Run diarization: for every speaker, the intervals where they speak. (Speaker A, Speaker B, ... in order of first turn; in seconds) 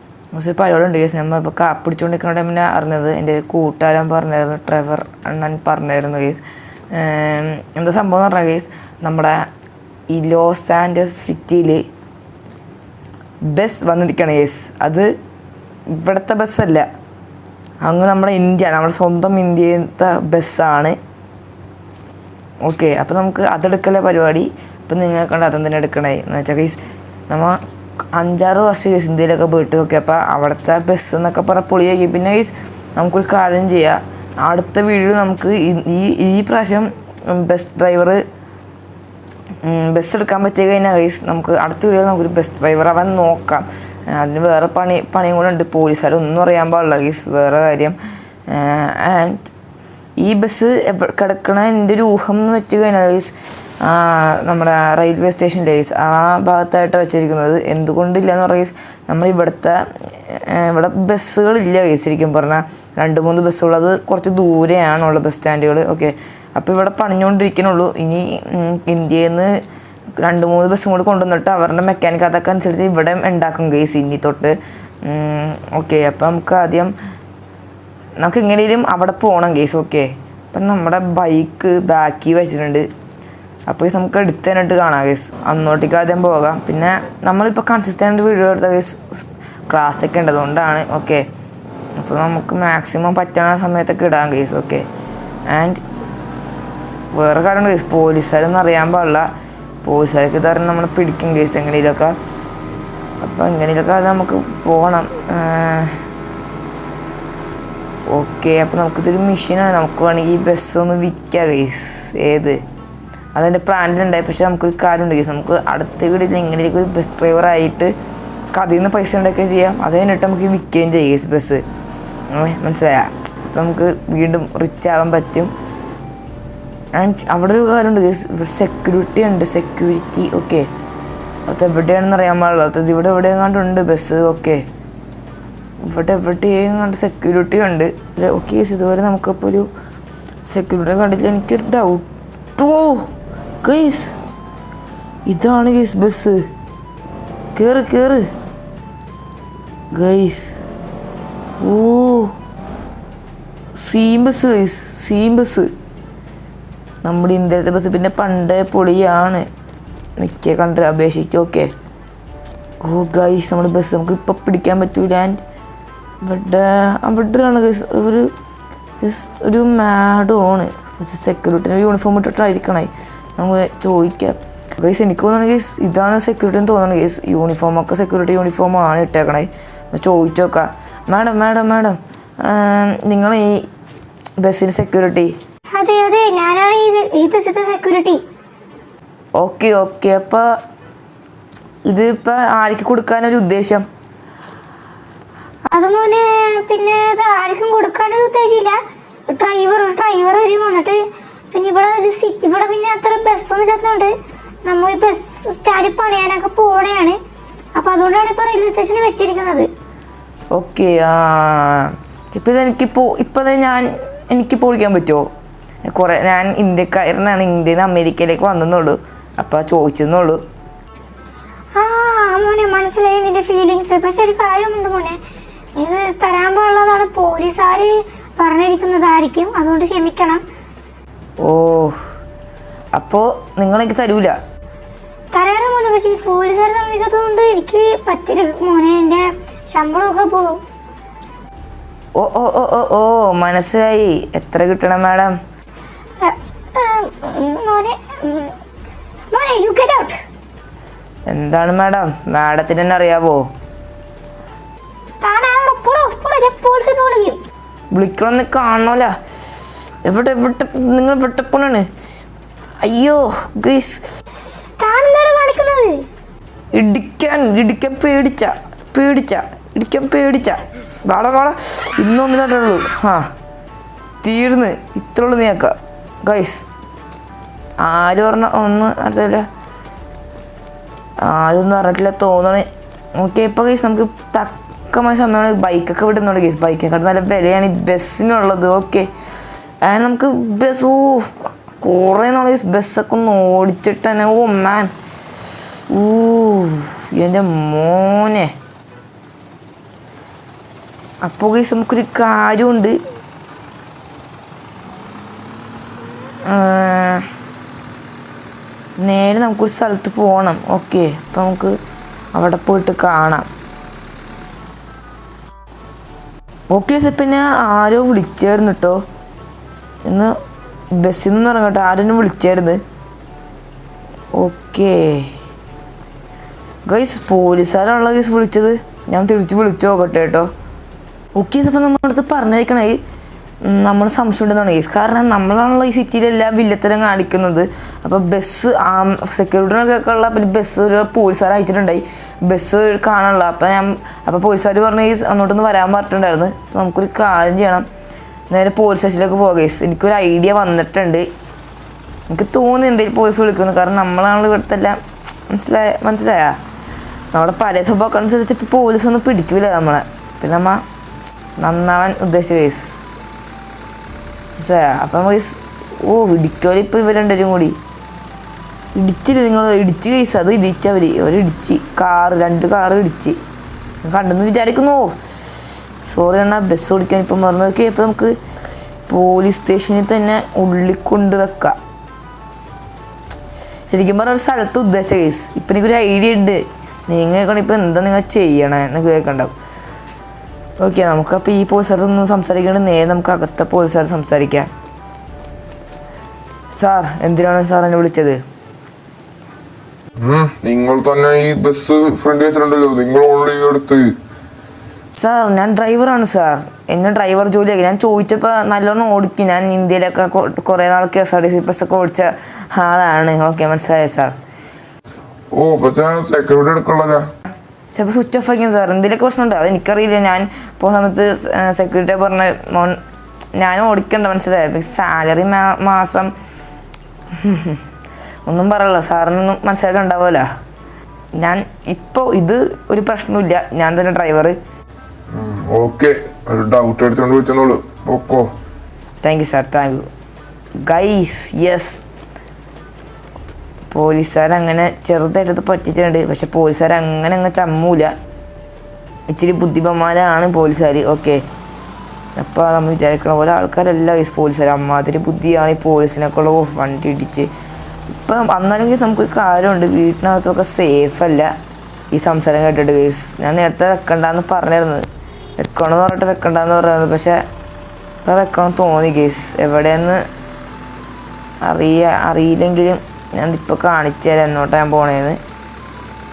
Speaker A: 0.3-6.4, 6.9-9.5, 10.1-11.8, 13.5-15.1, 15.9-16.9, 17.8-21.0, 22.6-26.8, 27.3-27.6, 28.1-38.2, 39.6-48.0, 48.5-49.5, 50.2-69.5, 70.2-76.9, 78.2-82.9, 83.7-91.2, 92.0-94.8, 95.5-95.8, 97.1-99.3, 99.8-102.2, 103.2-106.0, 108.1-112.6, 113.3-117.9, 118.5-121.6, 122.3-125.5, 127.0-130.7, 131.5-134.6, 135.8-139.7, 140.4-142.1, 142.6-143.1, 143.6-144.2, 145.3-146.4, 147.5-148.2, 149.9-150.6, 151.6-152.3, 153.8-155.7, 157.0-159.4, 160.2-161.7, 162.8-165.4, 166.2-168.3, 169.0-183.7, 184.4-185.3, 189.4-190.5, 191.8-193.8, 210.5-215.3, 215.9-220.4, 231.4-232.0, 232.9-234.4, 242.2-245.3, 251.3-253.5, 257.9-261.9, 262.8-264.2, 266.7-273.2, 274.2-276.7, 277.8-279.5, 281.2-289.1, 289.8-294.9, 295.9-298.5, 301.2-302.9, 306.4-307.3, 309.0-311.8, 312.3-313.5, 316.7-319.0, 320.1-320.3, 320.9-322.8, 324.4-325.4, 326.8-330.5, 331.4-333.0, 333.6-347.9, 348.5-351.3, 352.3-356.6, 357.3-360.8, 361.6-363.0, 364.6-367.8, 368.9-373.4, 374.0-375.2, 376.0-378.4, 379.1-381.8, 383.9-389.5, 390.8-394.7, 396.7-398.4, 405.1-414.4, 417.9-423.0, 423.6-426.3, 427.4-427.8, 428.4-430.4, 431.4-434.6, 439.2-440.1, 440.8-442.0, 443.9-448.1, 449.3-451.4, 452.4-457.5, 458.2-461.5, 462.1-465.0, 465.6-467.4, 468.2-470.2, 471.6-475.4
Speaker B: 185.7-188.2, 195.7-198.8, 199.3-201.0, 201.5-204.1, 204.6-207.2, 207.7-209.7, 221.7-225.2, 225.8-230.4, 235.3-240.6, 246.2-248.5, 249.3-250.2, 255.2-257.4, 264.8-266.1
Speaker C: 400.2-404.2, 415.5-417.3, 435.3-438.5